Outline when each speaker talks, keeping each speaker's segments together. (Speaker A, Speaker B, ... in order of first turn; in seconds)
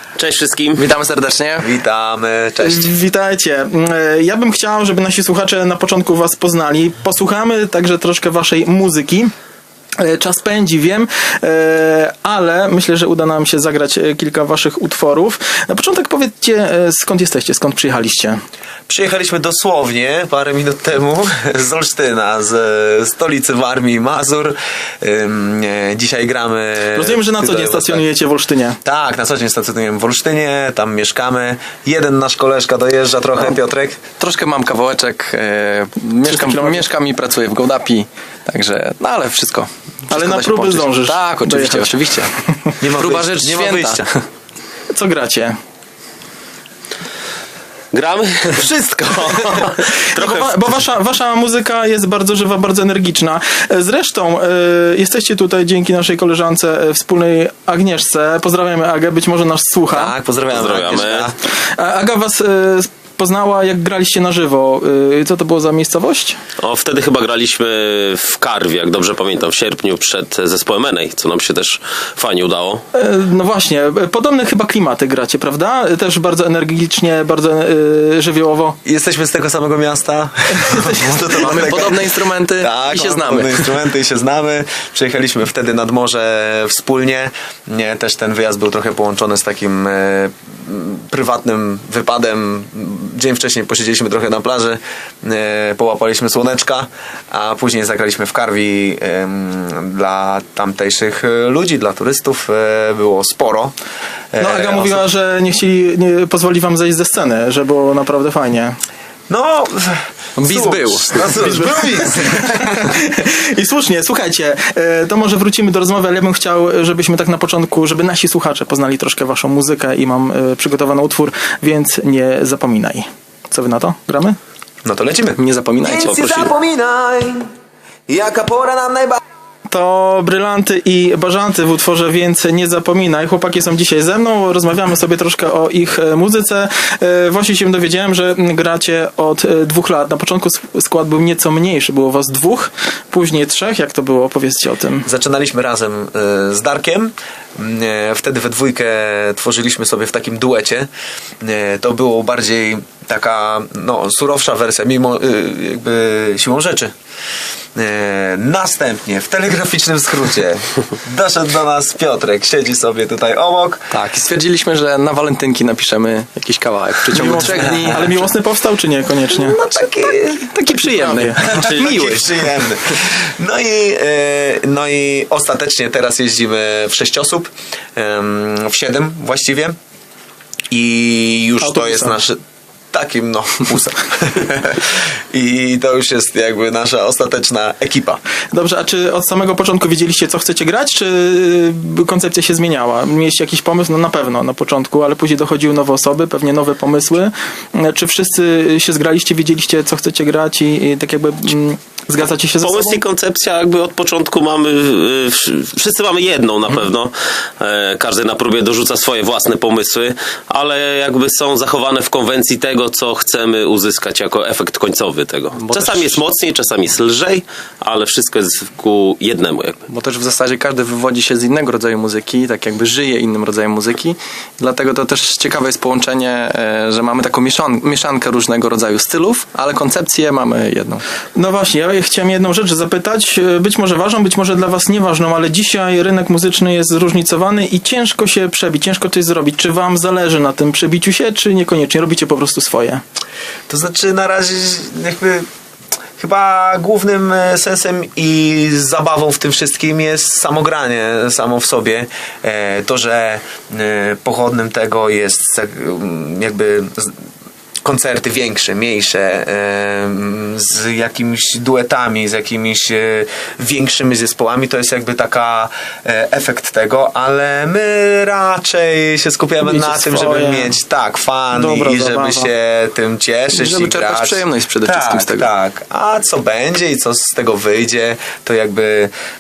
Speaker A: 0.2-0.8, 47.9-50.6, 60.5-61.3, 66.6-72.8, 126.0-126.5, 171.5-172.2, 202.6-219.8
Speaker B: 0.8-1.7, 34.2-42.3, 42.8-44.2, 81.3-83.6, 110.4-111.7, 125.4-126.1, 163.9-168.2, 170.8-171.5, 215.6-216.2, 219.9-231.0, 273.5-275.4
Speaker C: 1.6-2.9, 18.9-28.0, 28.8-34.0, 42.8-44.1, 48.6-49.7, 59.9-61.4, 78.8-103.7, 104.3-105.0, 109.3-112.9, 124.8-127.5, 128.1-129.2, 145.0-150.9, 151.4-156.9, 157.7-163.9, 167.3-168.1, 169.3-170.5, 171.3-179.8, 180.7-182.4, 182.9-188.2, 243.7-245.5, 246.2-257.1, 257.8-279.1
Speaker D: 2.6-9.3, 10.0-18.4, 26.9-28.8, 36.2-36.9, 40.1-42.0, 44.9-45.6, 50.1-60.1, 61.6-66.4, 72.9-78.8, 80.5-81.3, 104.4-108.8, 112.5-124.4, 129.7-145.1, 167.1-169.6, 170.5-171.6, 181.6-182.2, 188.5-203.0, 231.3-243.0, 269.6-270.7, 271.5-272.5